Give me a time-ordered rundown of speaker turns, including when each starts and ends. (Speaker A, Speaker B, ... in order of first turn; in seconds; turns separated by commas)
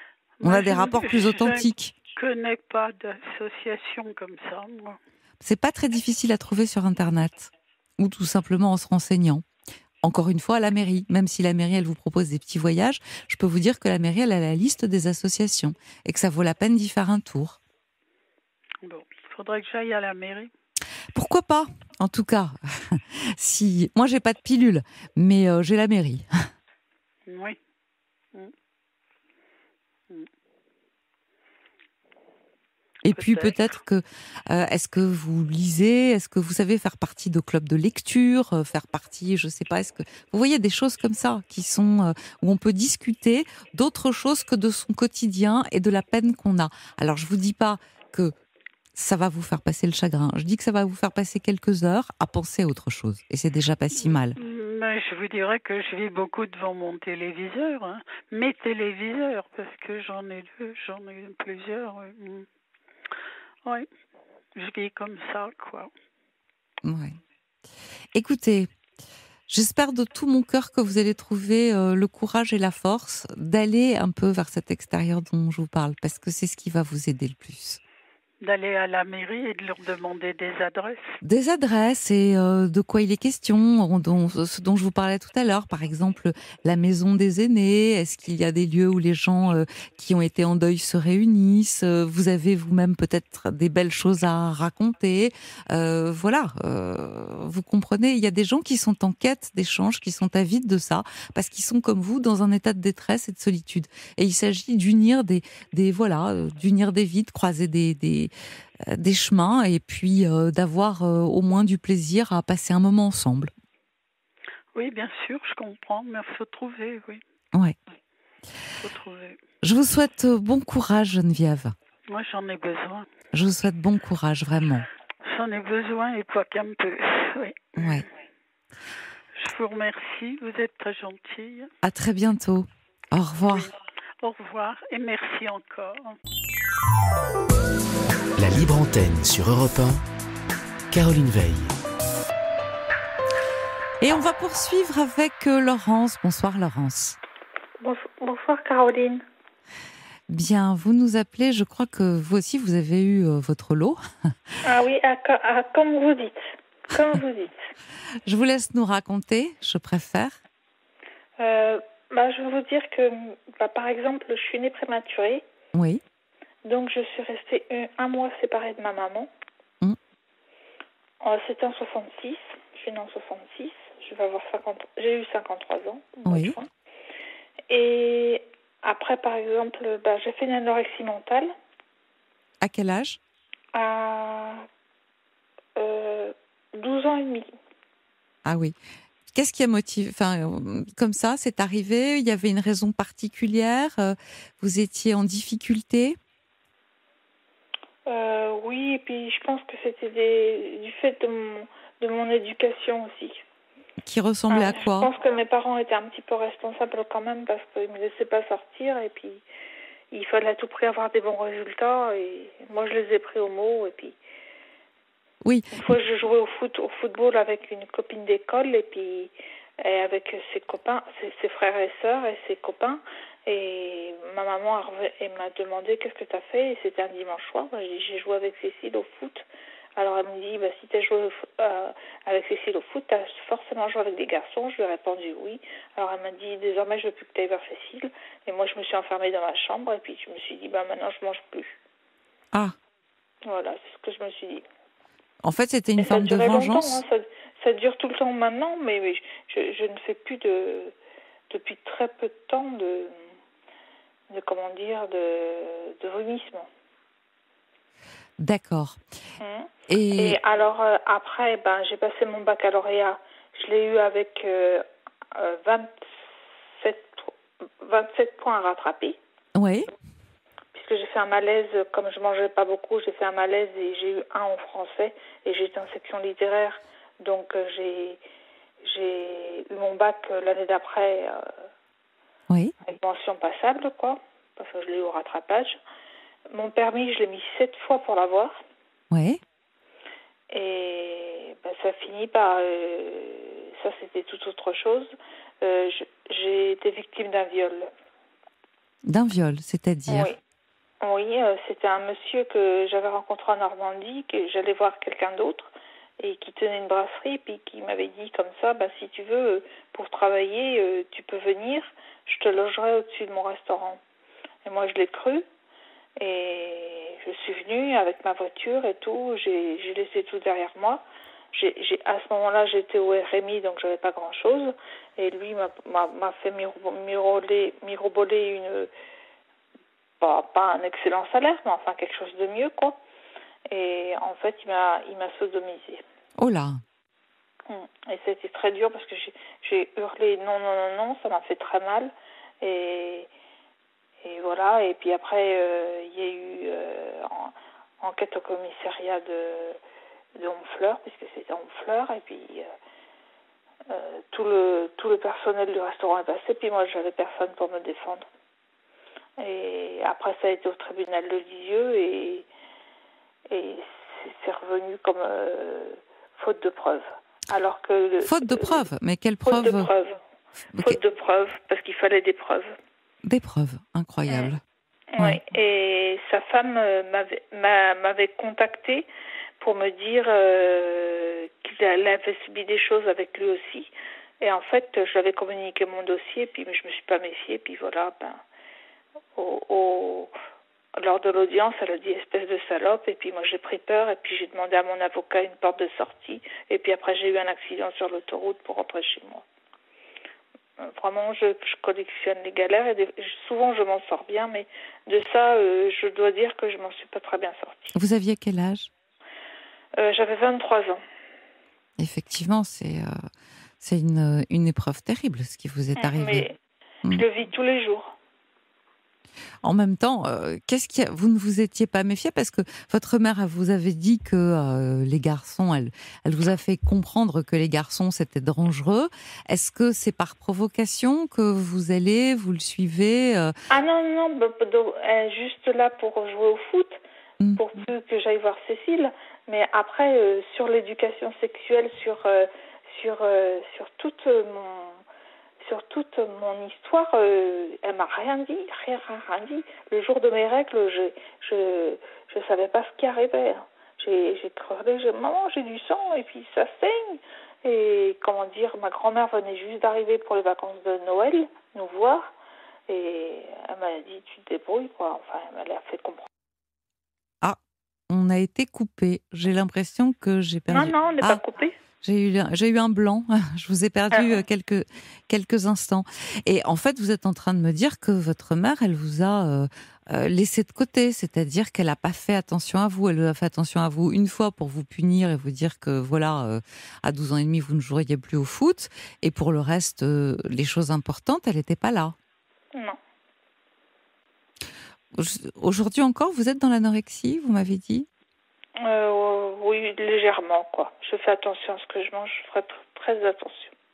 Speaker A: 0.4-5.0, Speaker B: 0.4-1.9, Speaker B: 5.4-9.4, Speaker B: 10.0-17.6, Speaker A: 18.8-20.5, Speaker B: 21.1-26.2, Speaker A: 27.3-27.6, Speaker B: 33.0-48.3, Speaker A: 33.1-33.6, Speaker B: 49.0-54.4, Speaker A: 53.9-62.5, Speaker A: 64.5-65.9, Speaker B: 66.8-67.2, Speaker B: 68.1-68.7, Speaker B: 69.5-77.8, Speaker A: 78.4-81.1, Speaker B: 81.2-108.3, Speaker B: 108.9-113.5, Speaker A: 114.7-117.2, Speaker A: 118.8-119.4, Speaker B: 119.6-121.7, Speaker A: 122.1-123.1, Speaker B: 123.3-124.8, Speaker A: 125.2-128.1, Speaker B: 127.8-128.1, Speaker A: 129.3-131.7, Speaker B: 131.8-133.7, Speaker A: 133.5-136.2, Speaker C: 138.4-140.0, Speaker C: 140.9-141.8, Speaker B: 144.0-147.2, Speaker D: 147.8-149.2, Speaker B: 150.3-154.0, Speaker D: 154.6-157.6, Speaker B: 158.2-160.4, Speaker D: 161.4-165.4, Speaker B: 165.7-166.0, Speaker D: 166.6-169.3, Speaker D: 171.2-176.7, Speaker B: 176.2-176.6, Speaker D: 177.7-181.5, Speaker B: 182.6-183.2, Speaker D: 183.7-184.7, Speaker D: 185.8-187.5, Speaker B: 188.4-188.7, Speaker B: 189.3-196.2, Speaker D: 198.1-203.4, Speaker B: 204.0-205.1, Speaker D: 204.5-209.4, Speaker D: 210.1-214.2, Speaker B: 215.4-215.9, Speaker D: 215.7-229.4, Speaker D: 230.0-241.8, Speaker D: 243.4-244.6, Speaker B: 245.4-247.0, Speaker D: 246.0-250.9, Speaker D: 251.5-253.1, Speaker D: 254.3-256.7, Speaker B: 258.4-259.0, Speaker D: 259.4-264.8, Speaker B: 259.9-260.4, Speaker D: 265.3-266.0, Speaker D: 266.8-267.3, Speaker D: 267.8-269.2, Speaker B: 269.5-269.9, Speaker D: 270.7-278.2, Speaker D: 278.8-281.5, Speaker D: 282.9-285.8, Speaker D: 286.5-288.6, Speaker B: 289.1-289.4, Speaker D: 290.5-297.9, Speaker B: 299.1-300.3, Speaker D: 300.1-300.4, Speaker D: 301.0-314.0, Speaker D: 314.6-315.4, Speaker D: 316.2-328.9, Speaker D: 330.2-333.0, Speaker D: 333.7-336.0, Speaker B: 336.4-336.8, Speaker D: 337.7-343.3, Speaker D: 344.2-349.8, Speaker D: 350.4-352.7, Speaker D: 353.9-358.2, Speaker D: 359.4-362.5, Speaker D: 363.5-368.8, Speaker B: 368.2-369.9, Speaker D: 369.4-370.2, Speaker B: 370.7-371.0, Speaker D: 370.8-372.7, Speaker B: 373.2-374.6, Speaker D: 374.3-374.5, Speaker D: 375.1-379.1, Speaker D: 379.6-388.4, Speaker D: 389.4-390.3, Speaker D: 390.9-399.4, Speaker D: 400.8-407.9, Speaker B: 407.9-408.9, Speaker D: 410.0-411.0, Speaker B: 412.0-413.2, Speaker B: 413.8-416.5, Speaker D: 416.0-416.6, Speaker D: 417.1-418.2, Speaker B: 419.6-433.5, Speaker D: 433.7-437.0, Speaker D: 437.6-445.0, Speaker D: 445.6-462.3, Speaker D: 462.9-466.2, Speaker B: 468.1-471.4, Speaker D: 470.7-471.7, Speaker B: 472.0-492.1, Speaker D: 474.1-474.4, Speaker B: 495.1-498.1, Speaker D: 498.8-503.7